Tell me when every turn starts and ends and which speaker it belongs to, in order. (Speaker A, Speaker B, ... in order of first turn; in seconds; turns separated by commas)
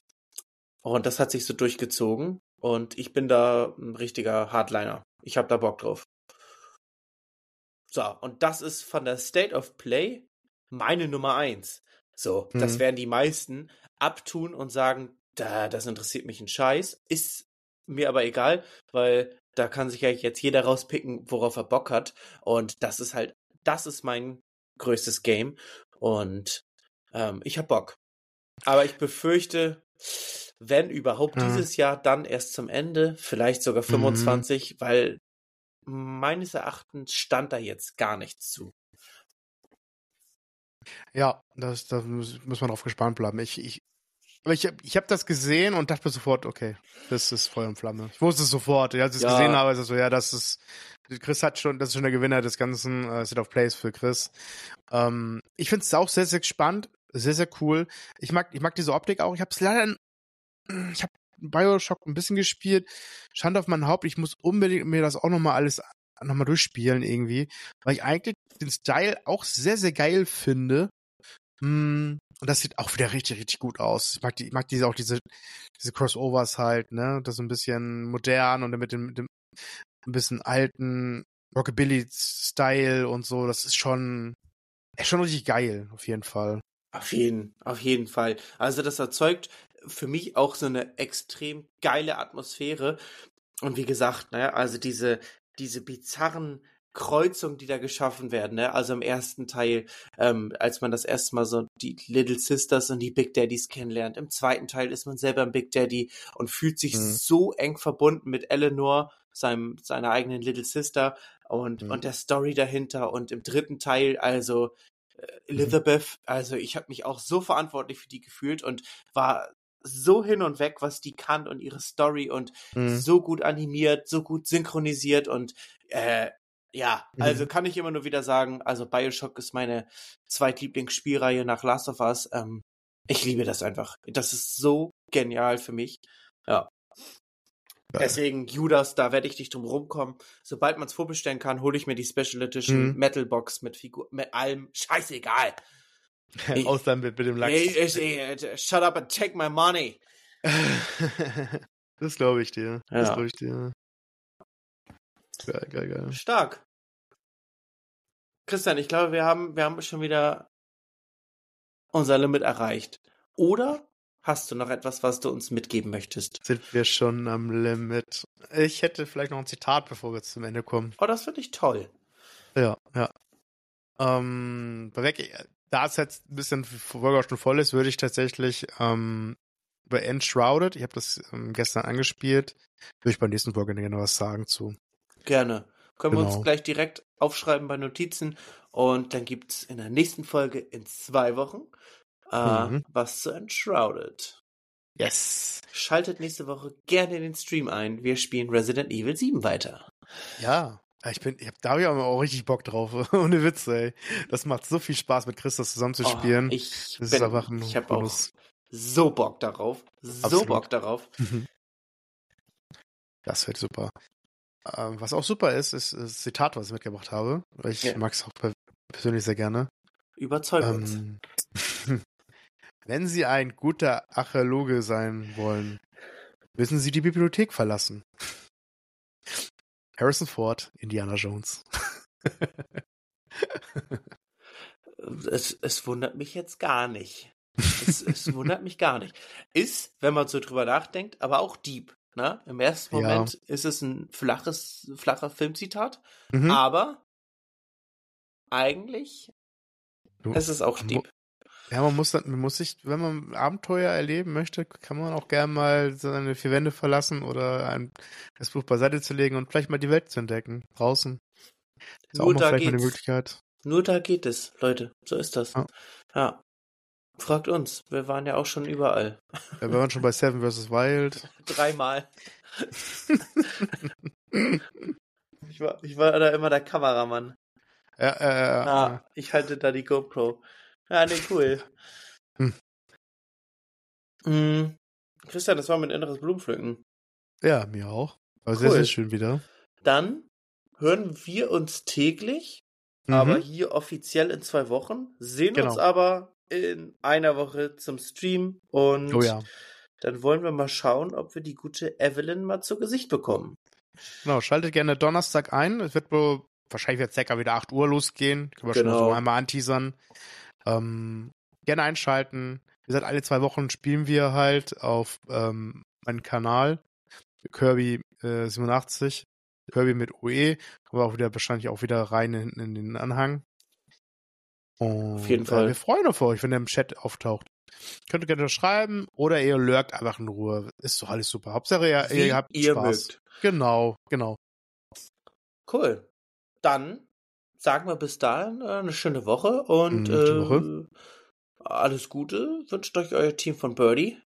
Speaker A: 0.8-6.1, Speaker A: 7.9-28.0, Speaker B: 12.6-12.8, Speaker A: 28.7-35.2, Speaker B: 31.4-31.7, Speaker B: 33.9-34.4, Speaker A: 35.9-38.8, Speaker B: 41.1-43.8, Speaker B: 44.5-54.3, Speaker A: 49.2-49.6, Speaker B: 54.9-60.0, Speaker B: 60.7-70.9, Speaker B: 71.6-75.3, Speaker B: 75.8-79.3, Speaker B: 80.0-84.4, Speaker B: 85.0-86.6, Speaker A: 86.9-93.0, Speaker A: 93.6-136.7, Speaker B: 106.9-107.2, Speaker B: 122.8-123.0, Speaker B: 127.2-127.5, Speaker B: 137.9-138.2, Speaker A: 138.0-145.6, Speaker B: 142.7-143.0, Speaker B: 146.4-148.0, Speaker A: 147.4-150.0, Speaker B: 150.4-153.7, Speaker A: 152.9-153.2, Speaker B: 155.4-156.2, Speaker A: 156.1-156.6, Speaker A: 158.5-160.5, Speaker A: 161.9-166.4, Speaker B: 166.4-170.9, Speaker A: 171.0-171.9, Speaker B: 172.6-173.1, Speaker B: 174.0-179.4, Speaker B: 179.9-184.8, Speaker A: 185.2-191.7, Speaker B: 186.1-186.5, Speaker A: 192.3-194.4, Speaker B: 192.4-192.8, Speaker B: 195.0-195.7, Speaker A: 195.7-199.9, Speaker B: 200.4-208.3, Speaker A: 206.0-211.2, Speaker B: 210.2-210.7, Speaker B: 211.2-211.5, Speaker B: 213.3-213.9, Speaker B: 214.7-219.7, Speaker A: 220.2-221.0, Speaker B: 220.6-222.0, Speaker B: 222.9-225.8, Speaker B: 226.6-228.1, Speaker B: 230.0-232.8, Speaker B: 233.3-234.0, Speaker A: 234.9-247.0, Speaker B: 242.9-243.3, Speaker B: 246.3-246.6, Speaker A: 248.5-249.3, Speaker B: 250.2-251.0, Speaker A: 250.3-251.1, Speaker B: 251.7-261.2, Speaker A: 262.1-263.0, Speaker B: 262.1-263.4, Speaker A: 263.6-265.6, Speaker A: 266.1-266.4, Speaker A: 267.2-269.6, Speaker B: 269.6-271.3, Speaker A: 271.3-272.8, Speaker A: 273.4-273.7, Speaker B: 274.3-274.9, Speaker A: 275.5-277.4, Speaker B: 278.0-279.0, Speaker A: 278.6-281.7, Speaker A: 284.2-286.8, Speaker B: 287.4-289.4, Speaker A: 288.5-288.9, Speaker A: 289.8-299.4, Speaker B: 293.1-293.4, Speaker B: 295.6-295.8, Speaker B: 299.1-299.4, Speaker A: 300.0-303.6, Speaker B: 304.2-310.0, Speaker A: 308.7-309.2, Speaker B: 310.6-316.8, Speaker B: 317.4-323.4, Speaker B: 324.8-327.5, Speaker A: 325.2-325.8, Speaker B: 328.1-334.4, Speaker A: 332.0-333.2, Speaker A: 335.7-336.1, Speaker A: 336.6-337.1, Speaker A: 337.6-340.9, Speaker B: 339.9-340.7, Speaker A: 341.6-344.2